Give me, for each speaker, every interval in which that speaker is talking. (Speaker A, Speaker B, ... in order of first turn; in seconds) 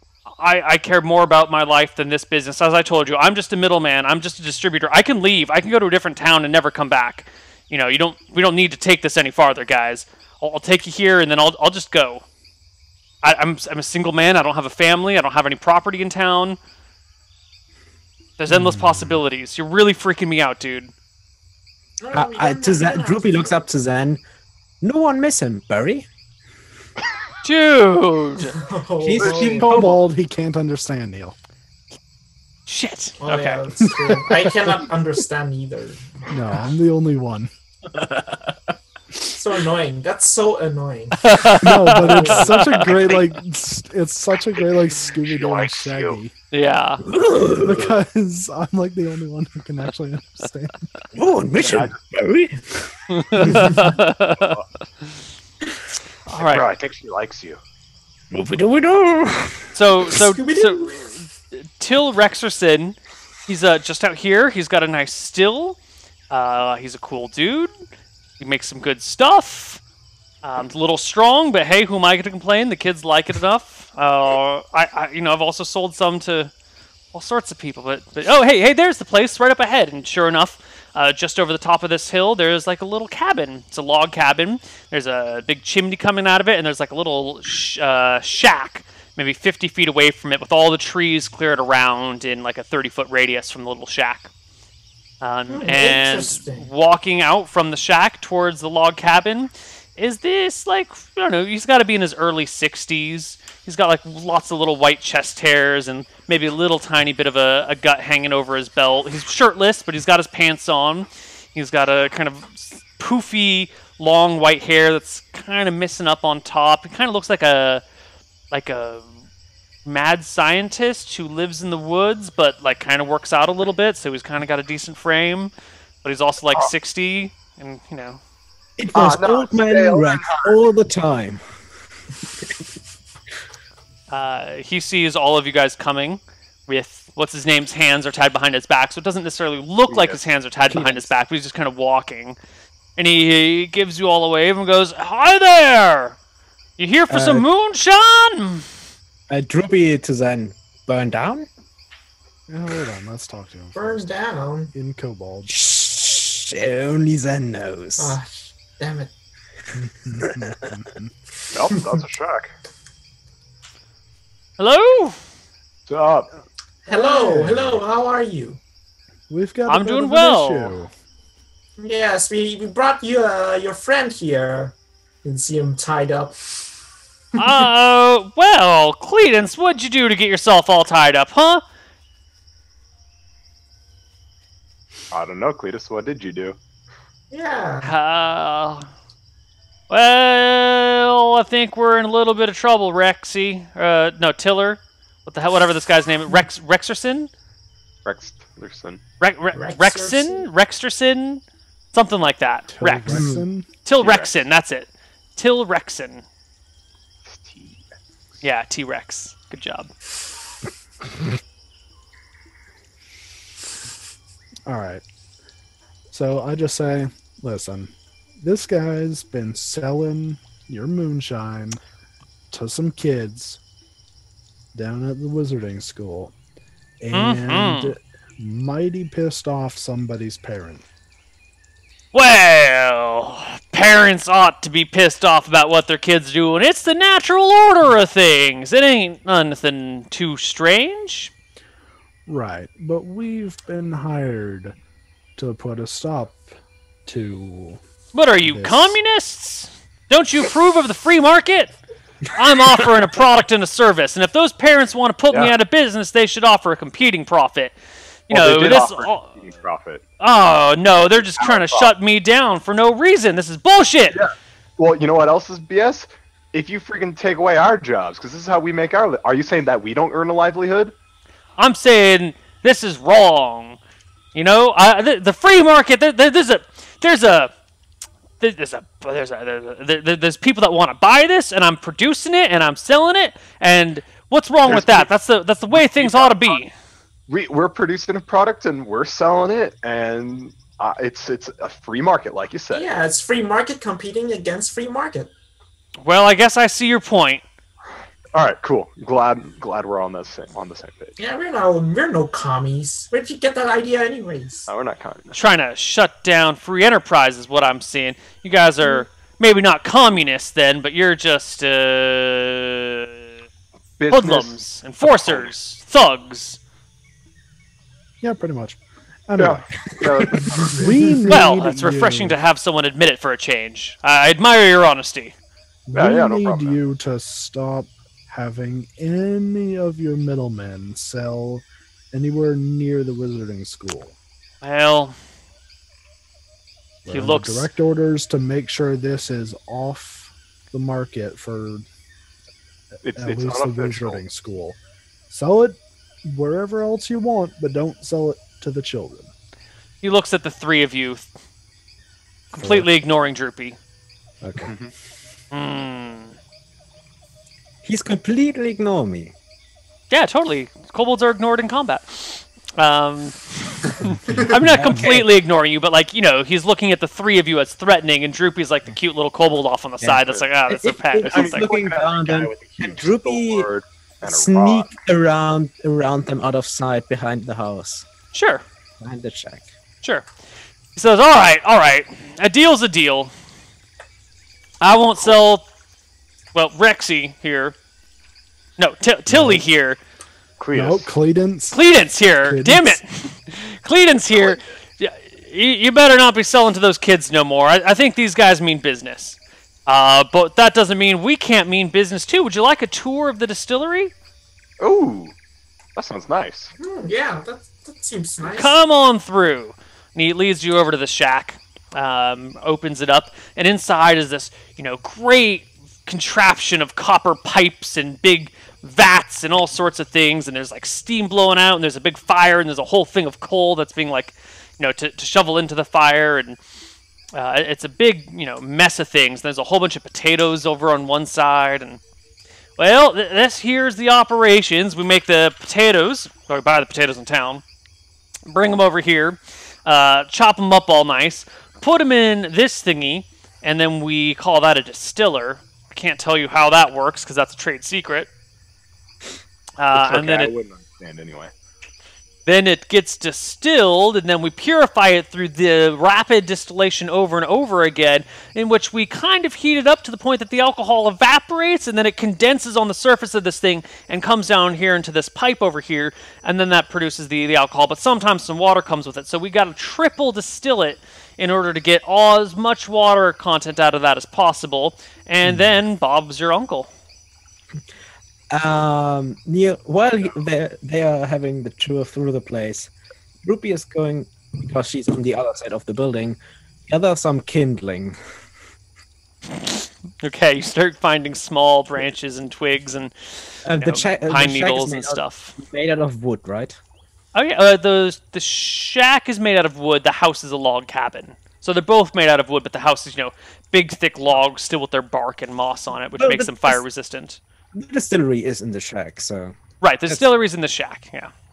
Speaker A: 0.4-12.2, 13.2-16.6, 18.4-20.9, 27.4-28.6, 32.7-33.6, 41.2-43.2, 46.5-47.0, 53.1-54.6, 56.3-56.7, 59.8-65.8, 66.3-67.7, 68.4-69.8, 70.4-76.5, 77.1-94.3, 95.2-117.8, 118.5-119.1, 119.8-125.5, 126.0-128.2, 134.1-142.4, 143.0-146.2, 146.8-148.7, 164.6-165.2, 169.7-170.8, 177.4-181.6, 187.8-188.9, 189.9-197.3, 199.2-203.3, 203.8-206.2, 208.4-209.9, 227.1-227.9, 232.1-241.3, 248.1-251.8, 252.3-257.8, 258.3-259.3, 260.2-264.2, 271.6-273.8, 274.3-277.5, 278.4-286.7, 296.0-297.4, 305.3-313.1, 314.1-316.6, 321.3-325.4, 334.6-335.2, 337.1-337.7, 350.0-351.3, 352.5-353.8, 355.5-356.4, 360.1-371.7, 378.3-378.6, 380.0-380.3, 380.9-383.3, 384.8-385.6, 386.5-387.8, 388.8-390.0, 391.7-404.1, 408.4-426.6, 427.3-432.0, 432.8-437.6, 438.5-448.3, 449.8-450.5, 452.5-476.9, 489.5-495.6, 497.4-507.4, 509.8-511.3
Speaker B: 18.5-19.2, 29.4-31.4, 33.9-34.8, 36.3-37.5, 41.5-46.3, 47.4-51.0, 152.5-154.2, 154.7-155.6, 159.8-161.1, 166.9-167.8, 169.3-170.9, 202.7-203.7, 214.7-215.0, 216.1-221.8, 222.5-223.6, 224.7-226.3, 227.0-230.9, 242.3-244.8, 245.4-246.5, 247.1-247.8, 248.4-249.0, 318.2-322.4, 325.9-334.1, 337.1-341.9, 343.1-344.8, 345.3-349.3, 352.6-352.9, 354.4-354.7, 389.3-389.6, 390.7-391.8, 392.4-393.0
Speaker C: 22.0-23.6, 28.5-29.9, 33.2-36.4, 39.2-42.5, 60.2-61.1, 95.5-96.7, 153.7-154.7, 158.0-159.1, 166.9-168.6, 171.8-176.3, 187.3-187.9, 199.5-200.5, 292.7-295.3, 301.2-304.7, 406.8-408.8
Speaker D: 22.1-24.2, 24.8-26.1, 29.0-30.0, 47.1-47.9, 51.1-52.9, 53.5-53.8, 58.3-60.2, 128.8-131.6, 140.7-141.1, 147.1-147.5, 149.3-151.5, 155.5-158.2, 160.2-160.7, 203.1-203.4, 320.0-320.5, 357.8-359.3, 364.6-365.3, 370.0-373.7, 374.2-378.1, 379.0-379.7, 478.5-482.9, 483.4-488.2, 493.6-496.8, 506.2-506.8, 507.7-509.6
Speaker E: 29.2-29.6, 45.2-46.2, 51.6-52.0, 54.4-54.6, 56.4-57.6, 128.9-130.6, 139.9-140.2, 161.5-162.6, 165.9-166.3, 185.1-186.6, 198.1-199.0, 204.0-204.3, 207.3-207.8, 258.3-260.0, 261.0-261.9, 264.1-270.9, 284.7-285.1, 285.8-286.6, 287.3-292.9, 298.3-301.2, 304.7-305.4, 314.0-315.5, 319.4-320.9, 325.9-326.8, 343.0-344.2, 354.7-354.9, 371.2-374.9, 390.6-391.1, 394.3-394.7, 404.8-405.4, 406.0-406.7, 449.9-451.5